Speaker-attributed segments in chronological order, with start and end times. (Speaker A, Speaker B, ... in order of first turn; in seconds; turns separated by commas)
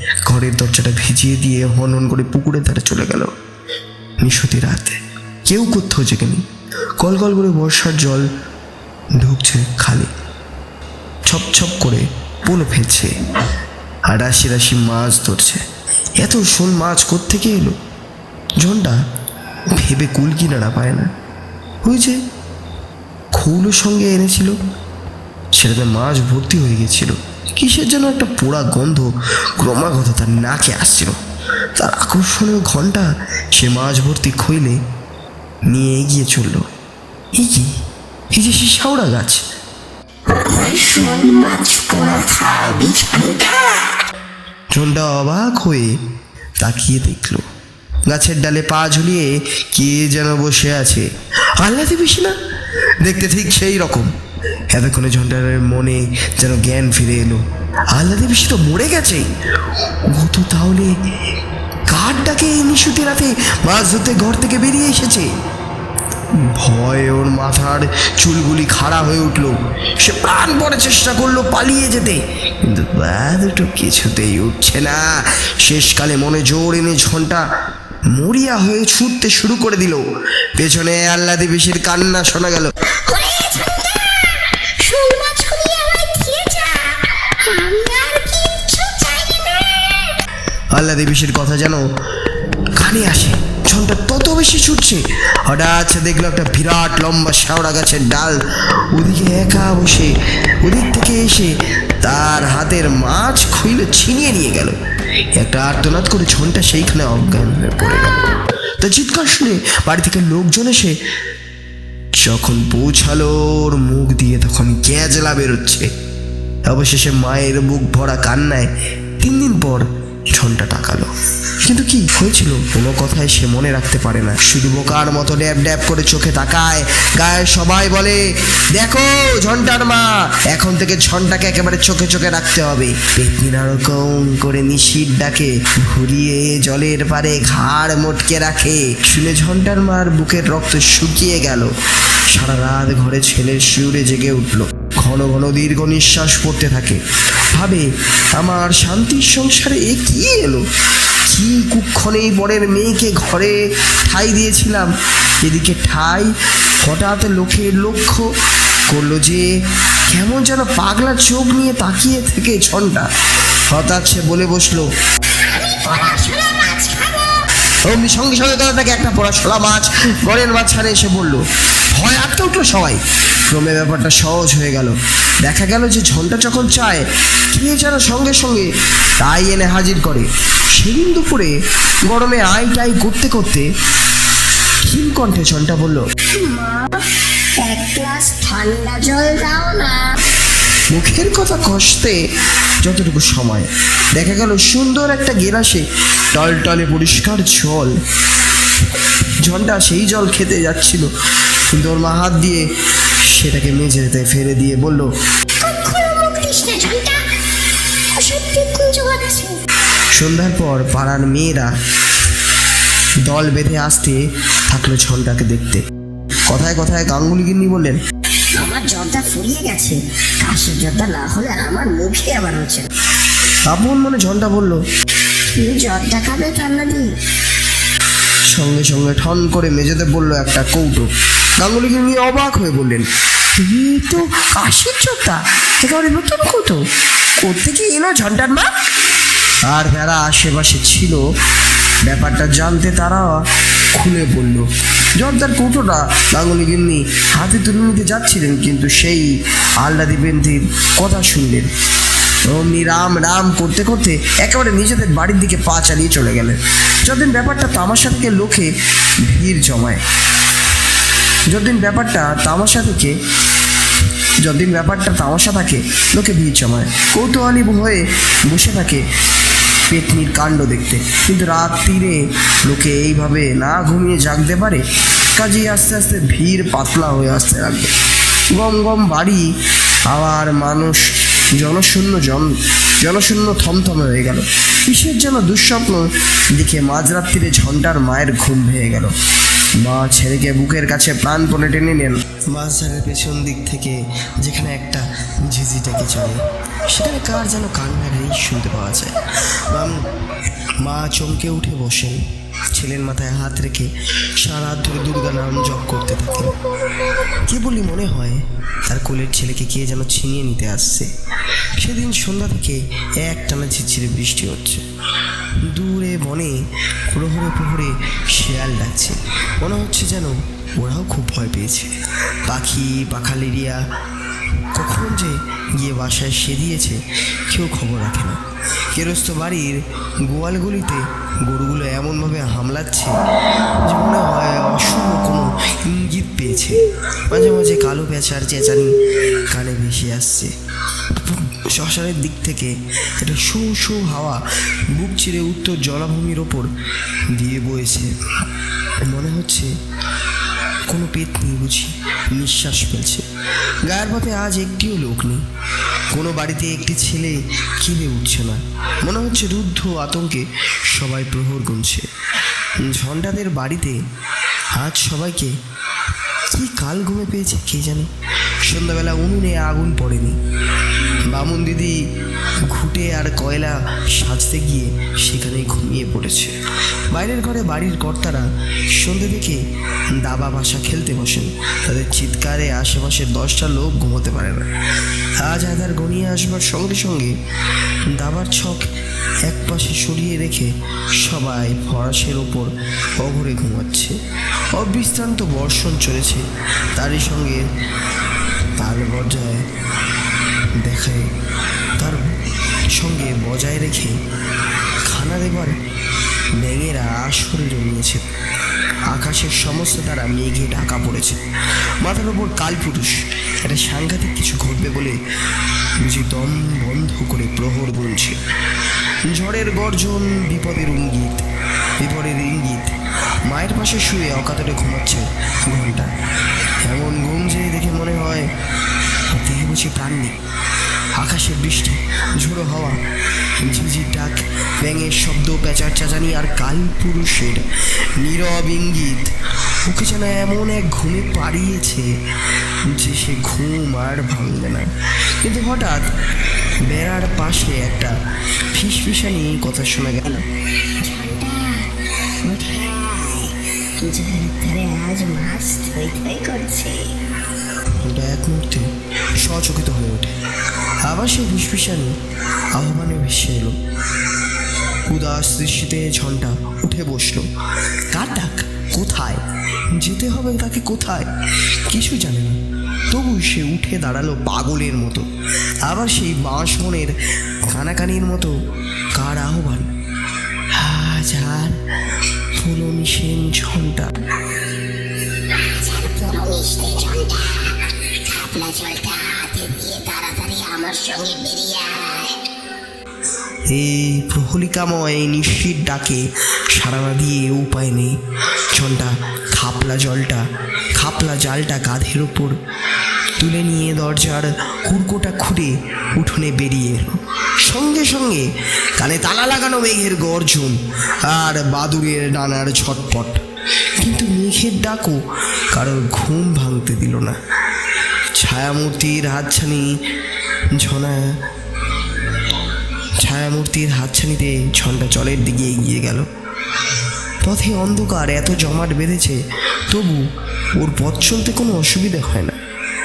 Speaker A: 0.3-3.3, Speaker A: 4.2-6.4, Speaker A: 7.0-8.3, Speaker A: 9.2-10.1, Speaker A: 11.3-13.1, Speaker A: 14.1-15.6, Speaker A: 16.2-17.8, Speaker A: 18.6-19.0, Speaker A: 19.8-21.1, Speaker A: 21.9-22.2, Speaker A: 23.3-24.5, Speaker A: 25.6-31.1, Speaker A: 31.8-34.8, Speaker A: 35.7-36.7, Speaker A: 37.4-37.7, Speaker A: 38.4-39.4, Speaker B: 40.3-43.8, Speaker A: 44.8-45.9, Speaker A: 46.6-47.5, Speaker A: 48.1-51.1, Speaker A: 51.6-52.4, Speaker A: 53.0-54.1, Speaker A: 54.7-57.4, Speaker A: 58.0-59.3, Speaker A: 60.1-60.9, Speaker A: 61.9-65.3, Speaker A: 66.5-77.5, Speaker A: 78.1-80.0, Speaker A: 80.6-82.7, Speaker B: 83.1-90.2, Speaker A: 90.8-91.8, Speaker A: 92.8-98.4, Speaker A: 98.9-100.1, Speaker A: 100.6-104.8, Speaker A: 105.4-108.3, Speaker A: 108.8-111.0, Speaker A: 112.2-115.9, Speaker A: 116.7-121.1, Speaker A: 121.7-128.2, Speaker A: 128.7-141.7, Speaker A: 142.3-147.0, Speaker A: 147.5-150.7, Speaker A: 151.3-154.9, Speaker A: 155.4-156.3, Speaker A: 156.8-158.3, Speaker A: 158.9-159.5, Speaker A: 160.1-163.1, Speaker A: 163.7-164.9, Speaker B: 165.4-167.5, Speaker A: 167.8-171.4, Speaker A: 171.9-181.5, Speaker A: 182.1-183.7, Speaker A: 184.9-186.0, Speaker B: 186.4-187.1, Speaker B: 187.6-190.2, Speaker A: 190.9-192.2, Speaker A: 192.8-197.9, Speaker A: 199.4-201.1, Speaker A: 201.7-202.7, Speaker A: 203.3-205.1, Speaker B: 205.6-207.2, Speaker B: 208.2-209.5, Speaker A: 210.2-211.7, Speaker A: 213.2-215.8, Speaker A: 216.5-218.0, Speaker B: 218.6-222.9, Speaker A: 223.7-224.8, Speaker B: 225.6-227.1, Speaker A: 228.5-233.1, Speaker A: 233.6-236.8, Speaker A: 237.4-238.7, Speaker A: 239.7-241.2, Speaker A: 242.1-243.4, Speaker A: 243.9-244.7, Speaker A: 245.2-251.7, Speaker A: 252.5-258.7, Speaker A: 259.3-260.0, Speaker A: 261.5-263.1, Speaker A: 264.4-269.0, Speaker A: 269.9-274.8, Speaker A: 275.4-277.9, Speaker A: 278.5-279.5, Speaker A: 280.1-289.1, Speaker A: 289.8-300.1, Speaker A: 300.8-302.2, Speaker A: 302.8-311.1, Speaker A: 311.8-314.9, Speaker A: 315.6-316.6, Speaker A: 317.1-321.9, Speaker A: 322.5-323.8, Speaker A: 324.8-328.4, Speaker A: 328.9-333.2, Speaker A: 333.8-339.0, Speaker A: 339.5-346.7, Speaker A: 347.3-348.1, Speaker A: 349.1-349.7, Speaker A: 350.9-353.3, Speaker A: 353.9-355.4, Speaker A: 356.1-362.1, Speaker A: 362.8-364.0, Speaker A: 364.8-365.6, Speaker A: 366.5-368.1, Speaker A: 368.7-370.4, Speaker A: 371.3-372.0, Speaker A: 372.7-376.6, Speaker A: 377.1-379.6, Speaker A: 380.2-384.7, Speaker A: 385.4-387.4, Speaker A: 388.1-388.9, Speaker A: 389.5-394.2, Speaker A: 394.8-397.6, Speaker A: 398.8-399.6, Speaker A: 400.8-401.3, Speaker A: 402.9-404.2, Speaker A: 405.1-405.8, Speaker A: 406.6-408.3, Speaker A: 409.1-411.4, Speaker A: 412.0-415.2, Speaker A: 416.0-418.4, Speaker A: 419.3-421.5, Speaker A: 422.0-426.1, Speaker A: 426.9-428.5, Speaker A: 429.3-430.4, Speaker A: 431.2-433.0, Speaker A: 433.6-437.7, Speaker A: 438.2-439.3, Speaker A: 439.9-442.1, Speaker A: 442.9-444.9, Speaker A: 445.4-446.0, Speaker A: 446.9-448.1, Speaker A: 448.7-450.4, Speaker B: 451.0-451.9, Speaker B: 452.4-457.1, Speaker A: 458.0-460.4, Speaker A: 461.1-462.1, Speaker A: 462.8-463.8, Speaker A: 465.1-467.5, Speaker A: 468.1-472.6, Speaker A: 473.1-475.3, Speaker A: 475.9-477.1, Speaker A: 477.7-478.5, Speaker A: 479.2-479.9, Speaker A: 480.7-484.1, Speaker B: 485.4-492.4, Speaker A: 493.7-498.2, Speaker A: 498.7-500.4, Speaker A: 501.0-502.6, Speaker A: 503.4-508.5, Speaker A: 509.0-513.4, Speaker A: 514.0-515.2, Speaker A: 515.7-517.4, Speaker A: 518.4-519.9, Speaker A: 520.8-521.2, Speaker A: 523.2-526.2, Speaker A: 527.4-530.2, Speaker A: 530.8-532.6